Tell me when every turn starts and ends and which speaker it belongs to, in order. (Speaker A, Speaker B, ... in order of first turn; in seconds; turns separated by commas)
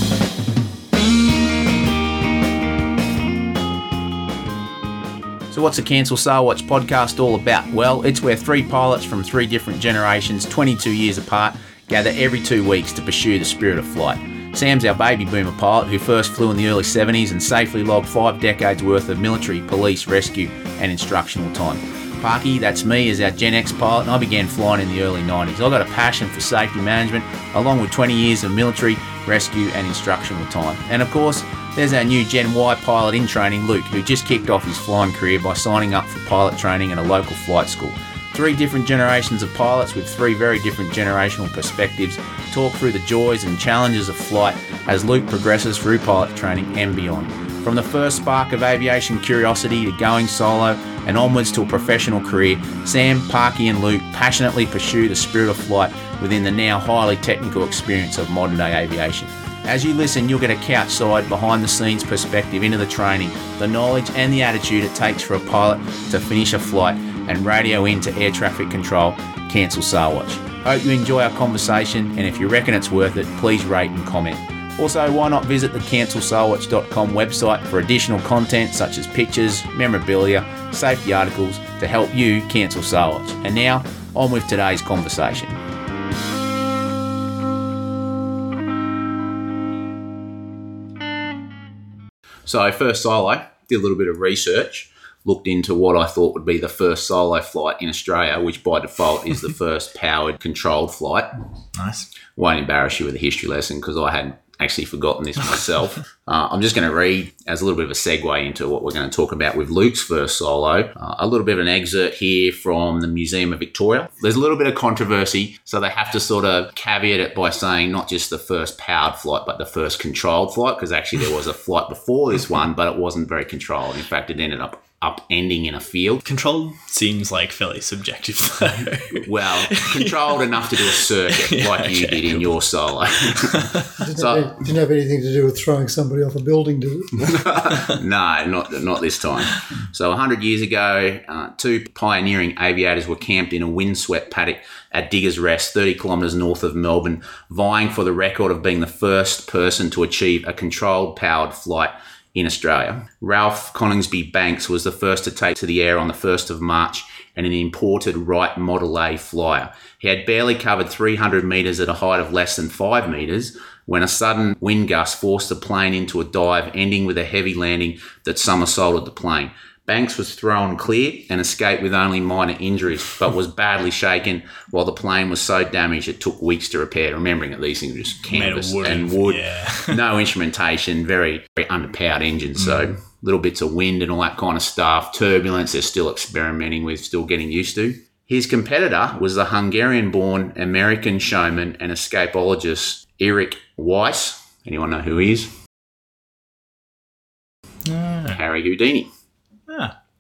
Speaker A: 5.5-85.6, Speaker A: 92.5-101.3, Speaker B: 101.8-102.1, Speaker A: 102.4-126.2, Speaker B: 126.2-132.6, Speaker A: 129.1-134.5, Speaker B: 133.2-133.9, Speaker C: 134.0-137.4, Speaker A: 137.2-195.5, Speaker B: 178.3-180.0, Speaker B: 197.9-198.4, Speaker A: 198.3-199.1